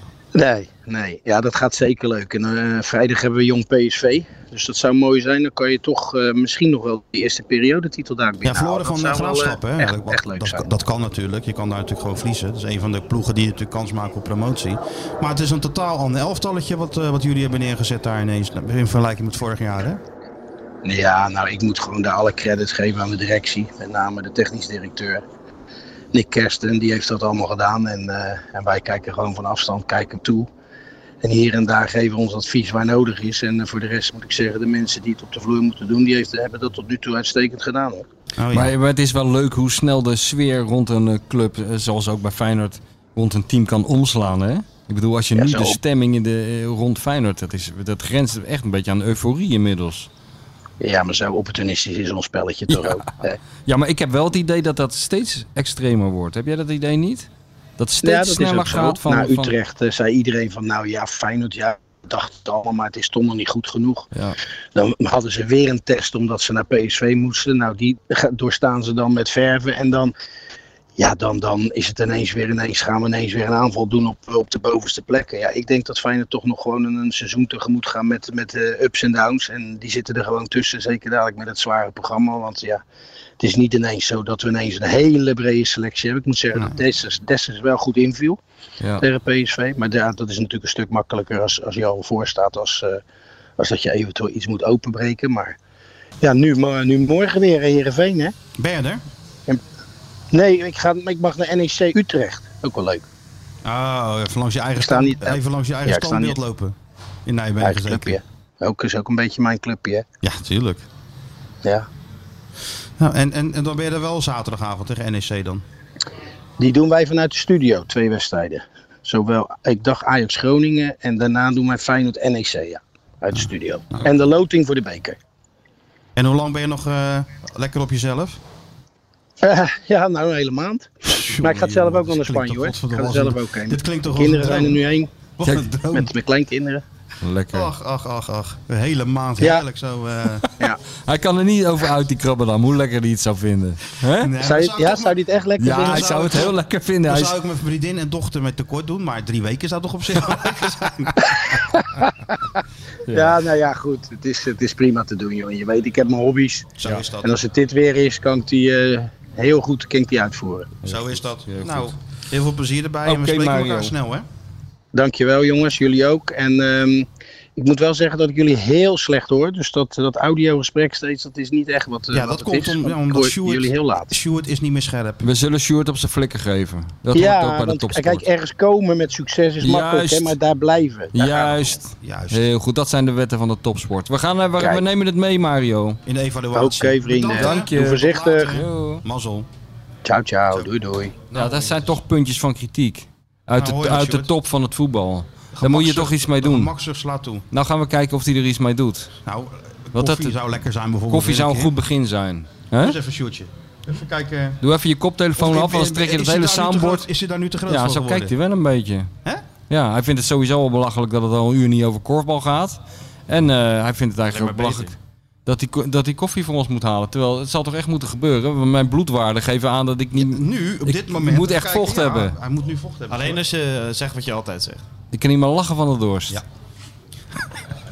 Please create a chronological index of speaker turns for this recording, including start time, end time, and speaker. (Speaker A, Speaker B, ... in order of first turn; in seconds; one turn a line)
Speaker A: 0.3-10.7
Speaker B: 8.4-20.0
Speaker A: 20.8-25.2
Speaker A: 26.1-30.5
Speaker A: 31.2-38.0
Speaker B: 38.4-38.7
Speaker C: 38.5-50.1
Speaker A: 45.3-45.8
Speaker A: 50.8-53.4
Speaker C: 53.6-59.5
Speaker A: 58.0-64.1
Speaker A: 64.7-70.1
Speaker A: 71.0-82.8
Speaker A: 83.4-88.4
Speaker A: 89.0-93.0
Speaker A: 93.6-95.5
Speaker A: 96.2-98.3
Speaker B: 98.6-99.0
Speaker A: 100.3-103.0
Speaker B: 103.6-108.2
Speaker A: 104.8-106.4
Speaker A: 107.6-110.0
Speaker B: 110.2-110.8
Speaker B: 113.0-115.6
Speaker A: 116.6-125.2
Speaker B: 126.2-128.4
Speaker A: 129.4-135.1
Speaker B: 131.1-134.8
Speaker B: 135.4-136.1
Speaker A: 135.9-136.8
Speaker C: 137.2-137.7
Speaker B: 137.5-140.5
Speaker A: 139.4-139.6
Speaker C: 141.1-144.3
Speaker B: 144.1-146.5
Speaker A: 144.4-146.5
Speaker C: 145.6-147.3
Speaker B: 147.1-151.6
Speaker A: 151.7-152.1
Speaker C: 153.1-153.4
Speaker A: 153.1-160.8
Speaker B: 156.8-157.4
Speaker C: 160.8-161.9
Speaker B: 160.8-164.2
Speaker C: 163.1-163.9
Speaker A: 164.9-174.1
Speaker B: 172.1-175.2
Speaker C: 175.2-178.3
Speaker A: 177.1-181.8
Speaker C: 179.6-180.3
Speaker C: 181.1-186.0
Speaker B: 182.0-182.5
Speaker A: 184.6-184.8
Speaker B: 186.1-189.5
Speaker A: 186.5-188.5
Speaker C: 187.3-189.0
Speaker A: 190.0-191.2
Speaker B: 191.3-192.0
Speaker C: 191.3-196.7
Speaker B: 193.5-194.3
Speaker B: 195.5-197.4
Speaker C: 197.5-199.1
Speaker B: 199.2-201.7
Speaker C: 199.9-200.4
Speaker C: 201.1-202.9
Speaker B: 202.8-204.6
Speaker C: 204.6-207.1
Speaker B: 205.3-208.3
Speaker C: 207.7-209.1
Speaker C: 209.7-214.9
Speaker D: 214.3-214.9
Speaker C: 215.4-222.3
Speaker B: 220.2-223.4
Speaker D: 223.1-224.8
Speaker C: 225.1-226.4